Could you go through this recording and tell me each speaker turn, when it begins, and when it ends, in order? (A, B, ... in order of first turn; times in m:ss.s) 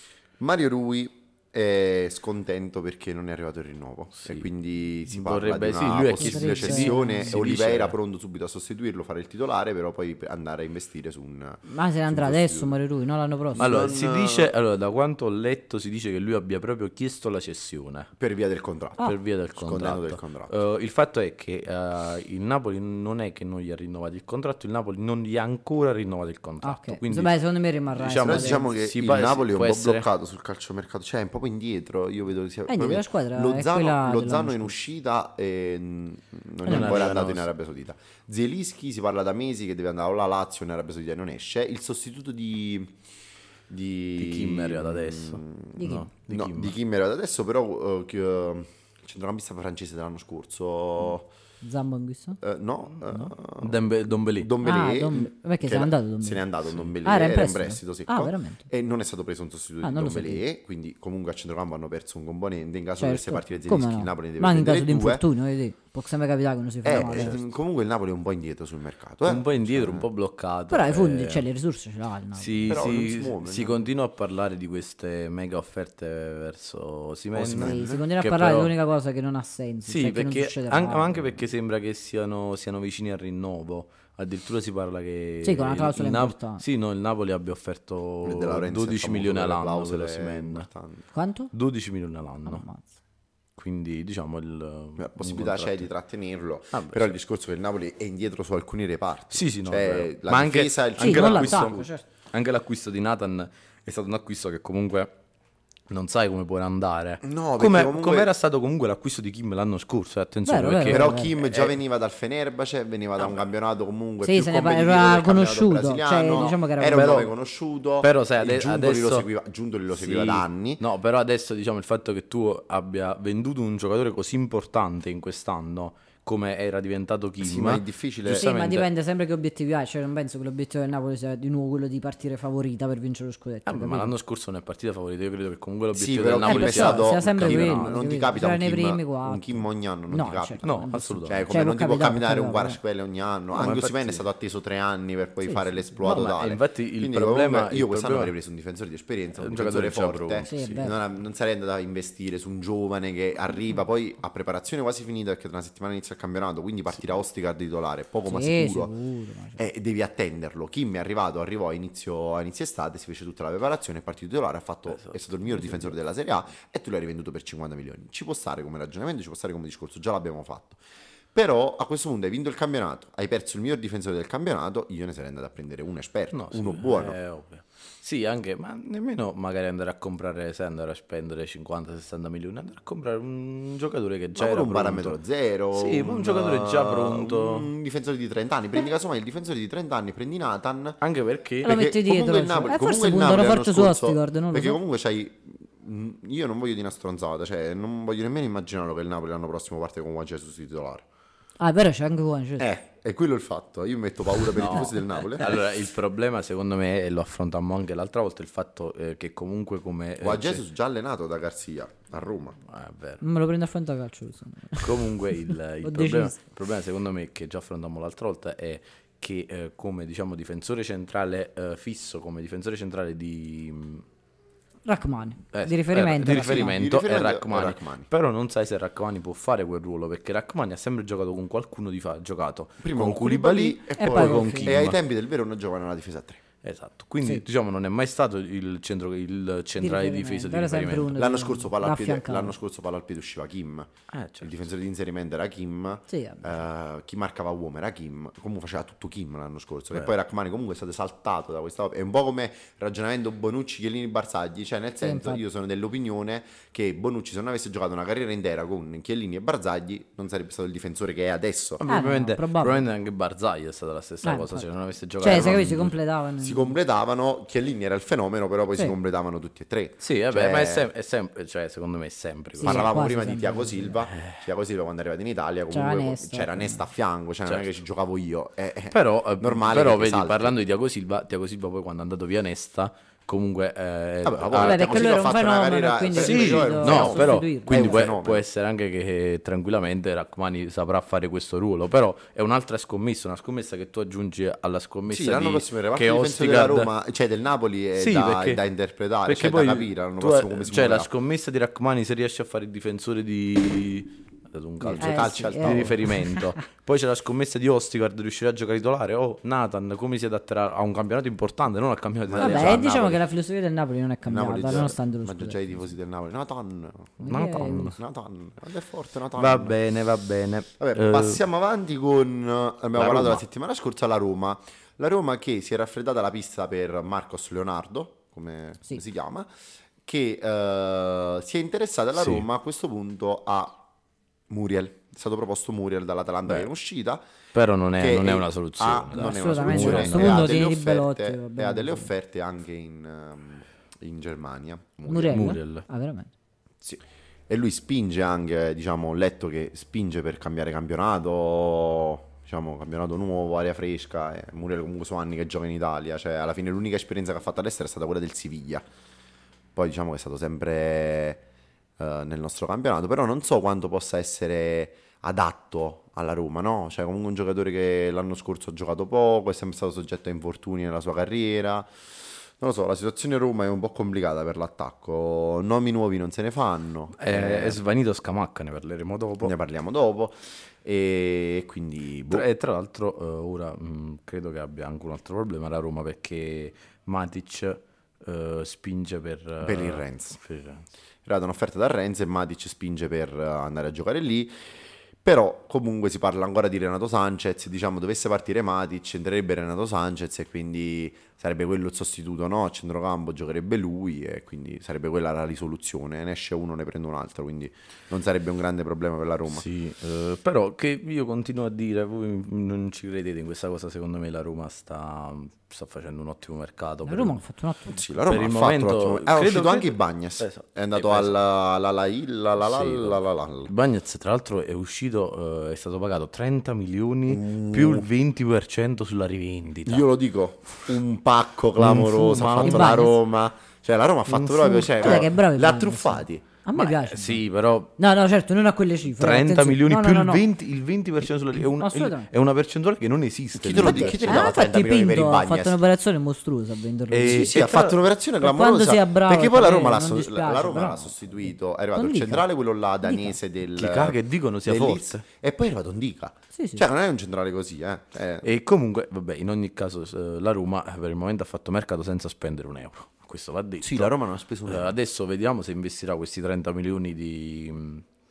0:00.4-0:12.8 A
0:04.2-0:04.5 B
0:05.1-0:07.9 B
0:06.2-0:07.3 C
0:11.7-0:13.7 C
0:13.5-0:14.5 A
0:13.6-0:18.1 B
0:18.2-0:20.6 A
0:19.0-0:27.4 B
0:26.6-0:28.7 C
0:27.9-0:30.0 B
0:28.2-0:42.9 A
0:32.7-0:34.8 C
0:36.6-0:37.1 C
0:36.6-0:37.5 B
0:43.7-0:51.3 A
0:44.2-0:46.8 B
0:45.8-0:46.1 C
0:51.6-0:52.4 C
0:52.4-1:05.2 A
0:53.1-0:54.5 B
0:54.6-0:56.4 C
0:57.0-0:58.7 C
0:59.8-1:00.4 C
1:03.0-1:07.4 C
1:06.8-1:10.1 A
1:06.9-1:07.4 B
1:09.2-1:11.4 B
1:10.7-1:13.1 C
1:12.4-1:18.7 B
1:12.7-1:13.8 A
1:17.3-1:18.0 A
1:17.5-1:21.4 C
1:19.9-1:30.7 B
1:25.4-1:26.6 C
1:28.2-1:31.0 A
1:31.1-1:31.5 C
1:31.5-1:32.6 B
1:32.4-1:32.8 C
1:33.6-1:35.9 B
1:35.0-1:41.8 A
1:36.7-1:37.1 B
1:39.3-1:45.1 B
1:41.0-1:42.0 C
1:45.9-1:51.7 B
1:47.2-1:48.3 A
1:50.4-1:51.3 C
1:50.9-2:00.8 A
1:54.2-1:57.3 C
1:56.4-1:57.3 B
1:58.0-1:59.2 B
1:59.9-2:08.9 B
2:07.4-2:08.5 A
2:08.3-2:14.1 C
2:13.6-2:17.9 B
2:15.9-2:38.9 A
2:16.4-2:22.8 C
2:20.6-2:21.4 B
2:23.5-2:24.2 B
2:25.4-2:25.7 C
2:26.0-2:28.3 B
2:29.4-2:30.8 B
2:30.5-2:31.0 C
2:38.2-2:39.6 C
2:39.6-2:50.8 A
2:44.9-2:45.9 B
2:51.3-2:57.2 A
2:56.3-3:05.2 B
3:04.3-3:11.0 A
3:05.7-3:07.7 B
3:11.0-3:11.8 B
3:11.6-3:14.8 C
3:11.6-3:21.0 A
3:21.6-3:22.7 C
3:22.6-3:25.6 A
3:24.5-3:30.6 B
3:30.2-3:32.6 A
3:32.7-3:33.2 B
3:33.2-3:36.4 C
3:34.8-3:44.0 B
3:44.8-3:46.7 C
3:45.5-3:55.0 B
3:46.2-3:48.1 A
3:52.8-3:56.4 A
3:54.0-3:54.8 C
3:56.6-4:01.1 B
3:59.8-4:02.6 C
4:01.1-4:03.9 A
4:04.1-4:04.6 B
4:04.4-4:21.8 A
4:06.1-4:06.5 C
4:15.0-4:15.4 C
4:21.8-4:25.9 B
4:21.8-4:22.8 C
4:24.2-4:24.6 C
4:25.2-4:26.8 C
4:25.2-4:25.7 A
4:26.4-4:30.9 A
4:30.0-4:32.9 B
4:32.6-4:34.0 C
4:32.6-4:40.6 A
4:34.1-4:34.4 B
4:35.7-4:36.8 C
4:38.9-4:45.1 B
4:44.2-4:48.4 A
4:44.5-4:48.0 C
4:46.1-4:56.9 B
4:55.1-5:01.1 A
4:58.0-4:58.6 B
4:59.2-5:13.0 B
5:04.8-5:06.0 A
5:05.0-5:06.5 C
5:12.3-5:13.2 A
5:12.4-5:15.6 C
5:14.2-5:17.2 A
5:17.2-5:18.0 C
5:17.2-5:18.0 B
5:17.8-5:19.8 A
5:19.3-5:21.4 B
5:20.8-5:29.5 A
5:22.9-5:23.4 B
5:30.0-5:33.8 A
5:32.1-5:32.4 B
5:34.5-5:37.2 A
5:37.5-5:40.5 B
5:38.0-5:45.4 A
5:39.1-5:42.1 C
5:45.0-5:46.3 C
5:45.3-5:45.8 B
5:46.8-5:58.8 A
5:59.7-6:01.4 A
6:02.0-6:11.9 A
6:12.6-6:17.8 A
6:17.2-6:19.5 B
6:19.4-6:22.4 A
6:22.3-6:30.8 B
6:29.6-6:30.4 A
6:31.2-6:49.6 A
6:49.5-6:57.4 B
6:57.0-6:58.1 C
6:57.9-7:03.7 A
6:58.2-7:01.3 B
7:02.6-7:10.1 B
7:07.3-7:08.1 A
7:09.8-7:16.4 A
7:11.8-7:13.1 B
7:12.6-7:13.2 C
7:14.3-7:15.2 B
7:14.4-7:17.4 C
7:16.7-7:17.9 B
7:18.0-7:20.4 C
7:19.1-7:24.5 B
7:21.8-7:22.3 C
7:23.6-7:25.8 A
7:23.7-7:27.6 C
7:27.1-7:28.0 B
7:27.2-7:38.5 A
7:28.4-7:32.4 C
7:33.0-7:33.4 C
7:33.7-7:35.2 B
7:36.5-7:36.8 C
7:38.4-7:44.1 B
7:43.8-7:44.9 A
7:44.6-7:48.0 B